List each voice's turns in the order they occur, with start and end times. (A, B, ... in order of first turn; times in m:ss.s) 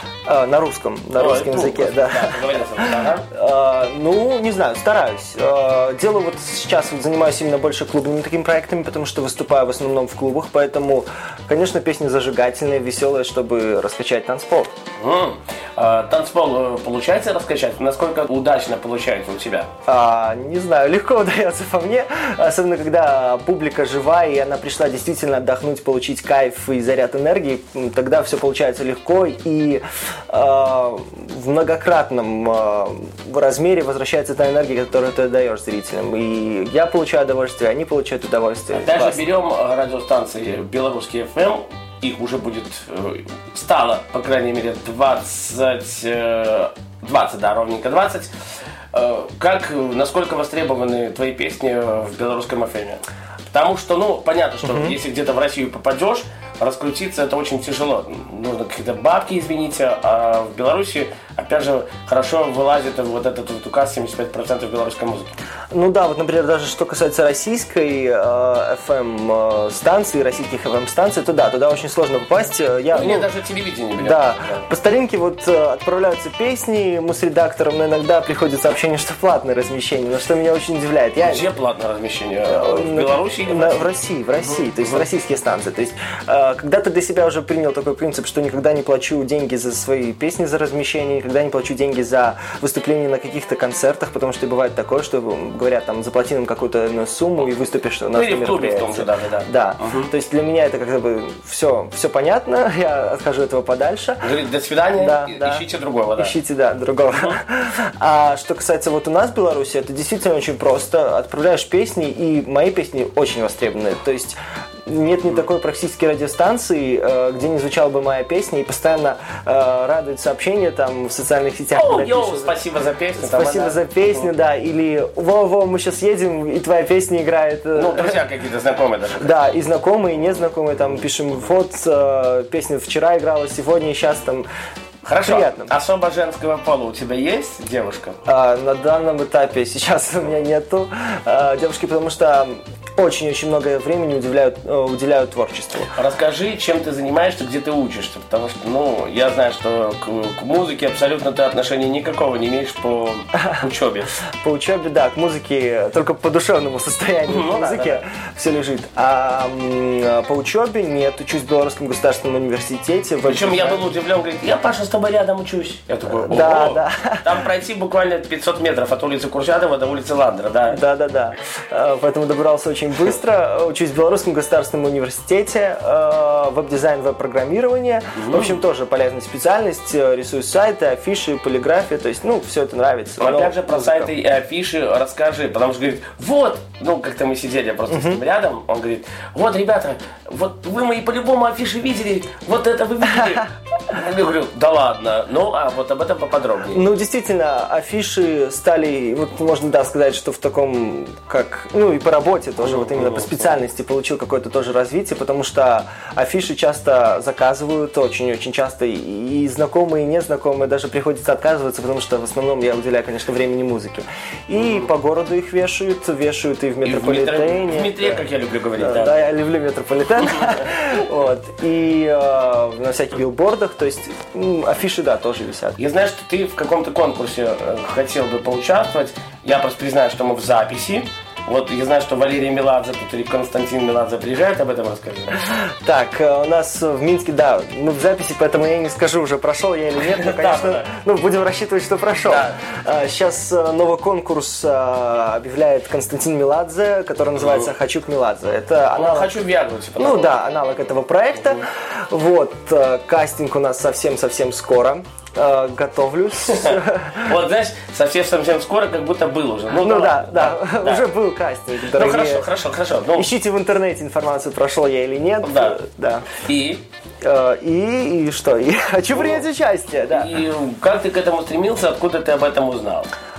0:00.3-0:14.7 A
0:01.2-0:03.3 B
0:15.0-0:19.7 B
0:19.9-0:39.2 A
0:38.7-0:48.3 B
0:48.9-1:05.3 B
0:54.6-0:55.0 A
1:05.7-1:13.3 A
1:12.9-1:14.7 B
1:14.0-1:21.5 A
1:21.2-1:25.0 B
1:22.5-1:44.3 A
1:38.1-1:40.1 B
1:44.2-1:46.4 B
1:45.0-1:45.6 A
1:46.2-2:02.6 A
2:01.7-2:04.3 B
2:03.2-2:08.2 A
2:07.7-2:09.4 B
2:09.2-2:14.5 A
2:15.0-2:18.2 B
2:15.2-2:15.7 A
2:18.3-2:25.9 A
2:25.9-2:34.1 B
2:34.4-2:43.8 A
2:37.3-2:38.0 B
2:43.3-2:50.8 B
2:46.0-2:47.5 A
2:50.7-3:04.1 A
2:58.2-2:58.6 B
3:03.2-3:16.8 B
3:07.9-3:08.2 A
3:13.1-3:13.4 A
3:16.7-3:38.2 A
3:22.6-3:23.3 B
3:34.6-3:34.9 B
3:36.8-3:39.2 B
3:38.8-3:45.8 A
3:45.8-3:55.4 B
3:55.6-4:09.4 A
4:00.0-4:00.9 B
4:02.3-4:02.6 B
4:07.4-4:07.7 B
4:09.0-4:10.4 B
4:10.0-4:17.4 A
4:16.5-4:21.1 B
4:19.7-4:22.5 A
4:21.9-4:23.3 B
4:23.2-4:26.3 A
4:25.4-4:25.8 B
4:26.3-4:26.8 B
4:27.2-4:30.4 A
4:29.1-4:29.4 B
4:30.1-4:33.1 B